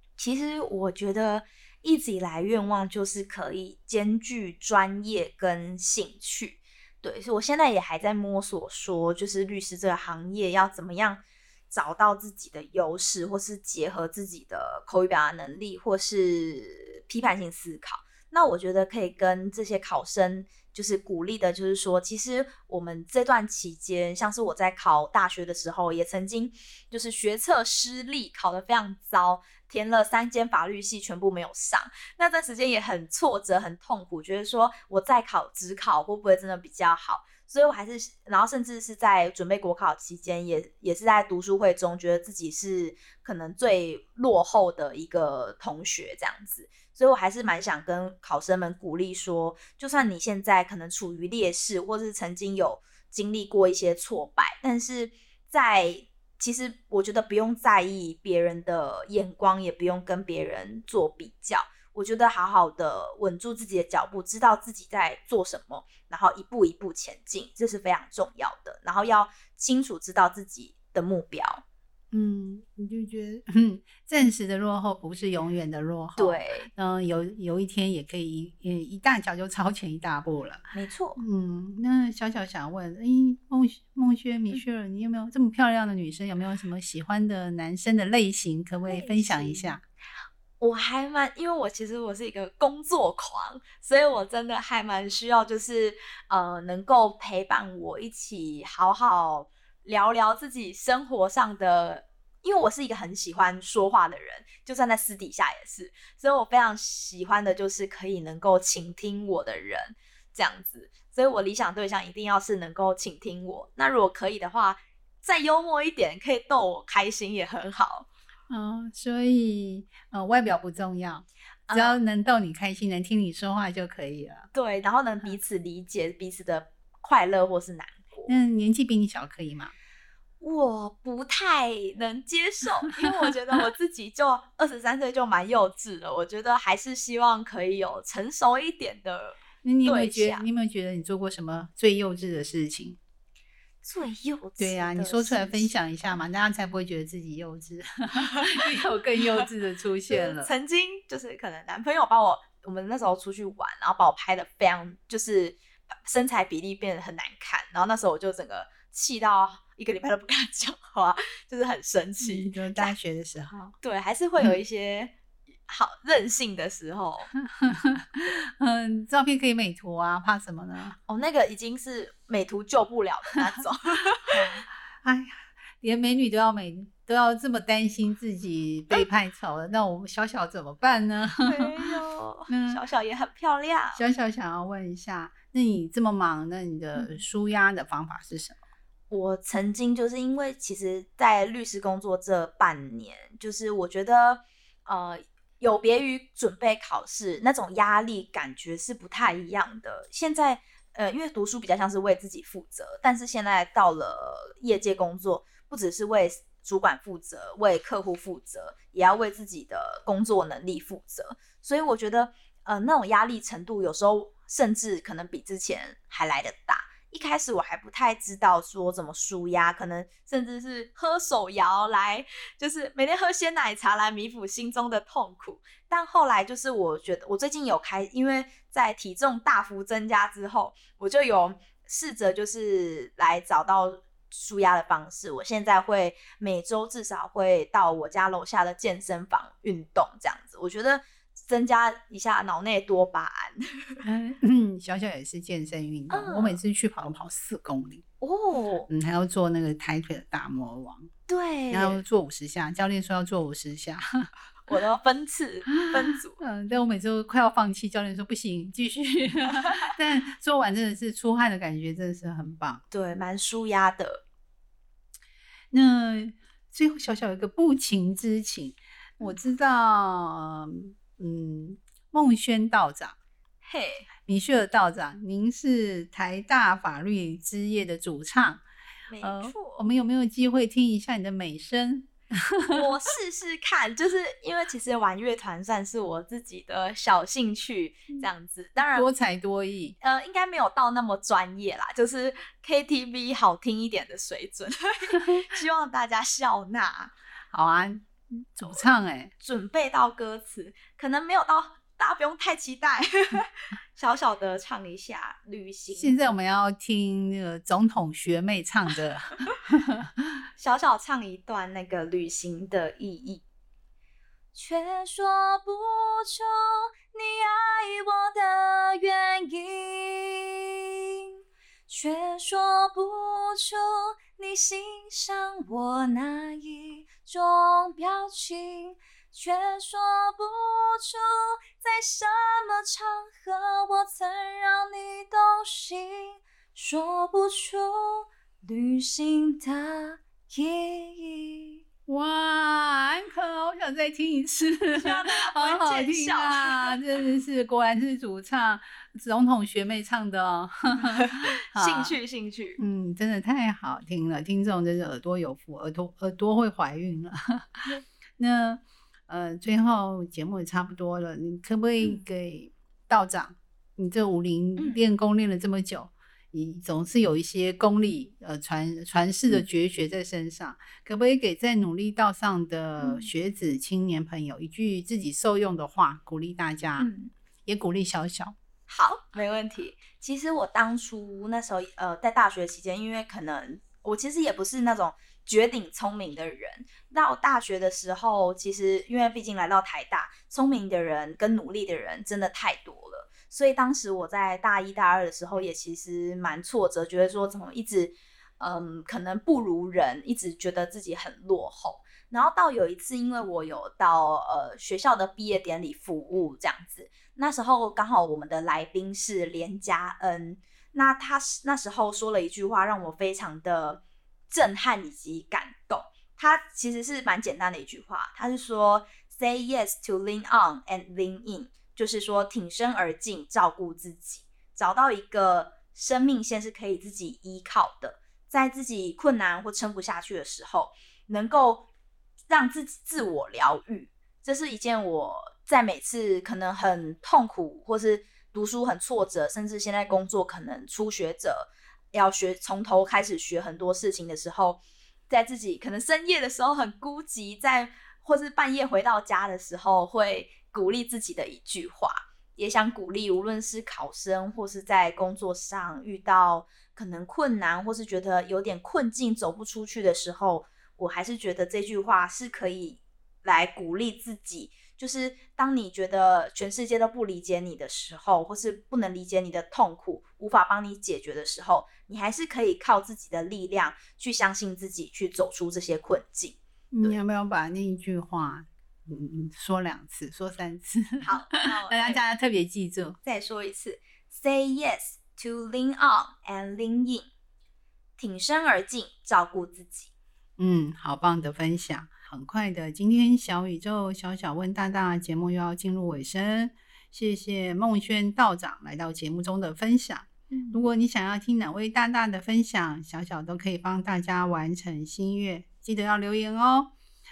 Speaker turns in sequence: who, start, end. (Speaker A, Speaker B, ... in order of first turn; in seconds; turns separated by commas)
Speaker A: 0.2-71.6, Speaker B: 72.1-80.6, Speaker A: 76.2-76.7, Speaker A: 80.7-81.2, Speaker B: 81.2-89.8, Speaker A: 88.9-89.8, Speaker A: 90.6-118.1, Speaker B: 118.5-124.5, Speaker A: 121.7-122.0, Speaker A: 124.5-128.3, Speaker B: 128.3-129.7, Speaker A: 130.4-140.4, Speaker B: 139.6-143.0, Speaker A: 143.8-145.7, Speaker B: 144.6-150.5, Speaker A: 148.1-149.4, Speaker A: 150.1-162.9, Speaker B: 162.2-163.7, Speaker A: 163.8-165.1, Speaker A: 165.7-167.3, Speaker B: 167.4-170.9, Speaker A: 171.1-174.4, Speaker B: 174.3-181.7, Speaker A: 181.4-184.0, Speaker B: 182.5-182.8, Speaker B: 183.9-188.6, Speaker A: 189.1-244.0, Speaker B: 244.0-248.0, Speaker A: 246.1-246.6, Speaker A: 248.2-248.9, Speaker B: 248.9-251.1, Speaker A: 251.3-252.0, Speaker B: 251.7-254.3, Speaker A: 254.7-256.4, Speaker B: 255.8-262.8, Speaker A: 262.9-264.2, Speaker B: 265.7-273.1, Speaker A: 273.6-274.1, Speaker B: 274.2-278.6, Speaker A: 279.1-279.8, Speaker B: 279.2-282.8, Speaker A: 282.7-289.1, Speaker B: 288.8-289.9, Speaker A: 290.0-297.1, Speaker B: 297.5-299.3, Speaker A: 298.6-298.9, Speaker A: 299.4-306.3, Speaker B: 305.9-310.4, Speaker A: 310.6-313.4, Speaker A: 314.5-320.5, Speaker A: 321.9-341.8, Speaker B: 342.1-352.1, Speaker A: 344.9-347.0, Speaker A: 351.0-352.8, Speaker B: 352.8-357.9, Speaker B: 358.4-377.1, Speaker A: 364.8-365.0, Speaker A: 373.0-373.3, Speaker A: 377.0-377.3, Speaker B: 377.6-378.6, Speaker A: 378.9-431.9, Speaker A: 432.5-477.2, Speaker B: 476.9-483.2, Speaker A: 481.2-482.2, Speaker A: 483.2-487.3, Speaker A: 488.2-490.1, Speaker B: 490.6-506.9, Speaker A: 500.5-500.9